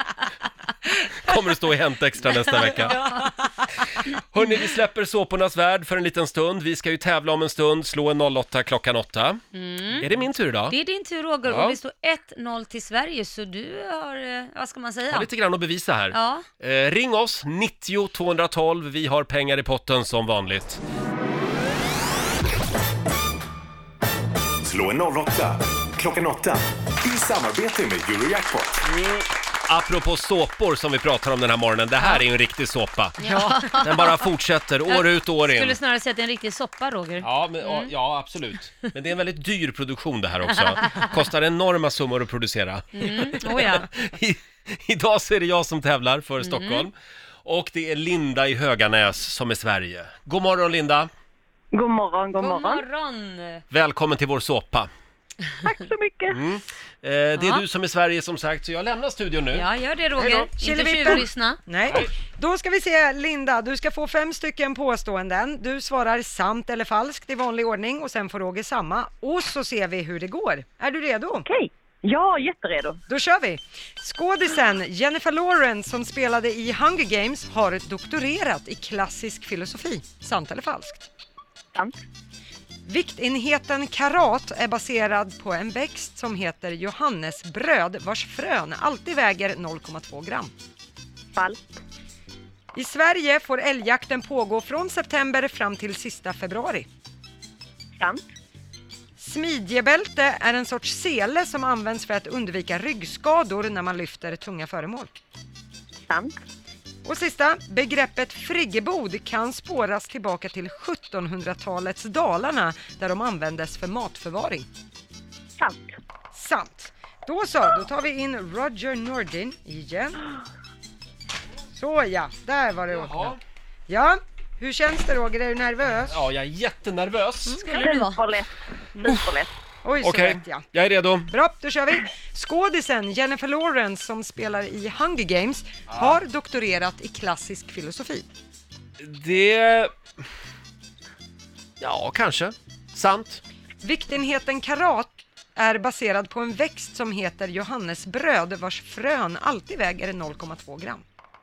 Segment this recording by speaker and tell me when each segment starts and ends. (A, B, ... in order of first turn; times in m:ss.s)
0:01.2-0:03.0 A
0:02.3-0:03.3 B
0:03.0-0:03.4 C
0:03.9-0:09.4 A
0:09.5-0:10.1 B
0:10.0-0:10.7 A
0:10.7-0:15.3 B
0:11.4-0:11.8 A
0:15.1-0:20.8 A
0:16.1-0:16.4 B
0:24.6-0:28.8 D
0:28.8-0:35.8 A
0:33.2-0:34.3 B
0:33.2-0:33.8 C
0:34.9-0:37.9 B
0:37.2-0:46.9 A
0:40.6-0:41.1 B
0:43.0-0:43.9 B
0:46.4-0:46.9 B
0:47.4-0:51.1 A
0:51.7-0:52.8 E
0:52.4-0:53.6 B
0:53.7-0:54.9 A
0:55.6-0:56.4 E
0:56.3-0:59.6 A
0:57.4-0:57.6 B
0:59.5-1:01.6 B
1:00.2-1:11.4 C
1:01.9-1:02.1 A
1:11.4-1:13.0 E
1:13.1-1:21.0 C
1:22.9-1:30.5 C
1:32.7-1:36.9 C
1:39.2-1:45.1 C
1:46.1-1:46.4 E
1:47.0-1:54.7 C
1:55.6-1:55.9 E
1:56.3-2:00.2 C
2:01.7-2:03.4 C
2:02.9-2:03.4 A
2:03.9-2:06.2 C
2:06.0-2:07.6 A
2:07.5-2:07.8 C
2:07.7-2:08.2 B
2:07.7-2:09.5 E
2:09.8-2:10.6 C
2:10.0-2:11.3 A
2:11.3-2:18.3 C
2:15.9-2:16.1 A
2:19.0-2:19.9 A
2:21.8-2:23.4 A
2:23.8-2:31.0 C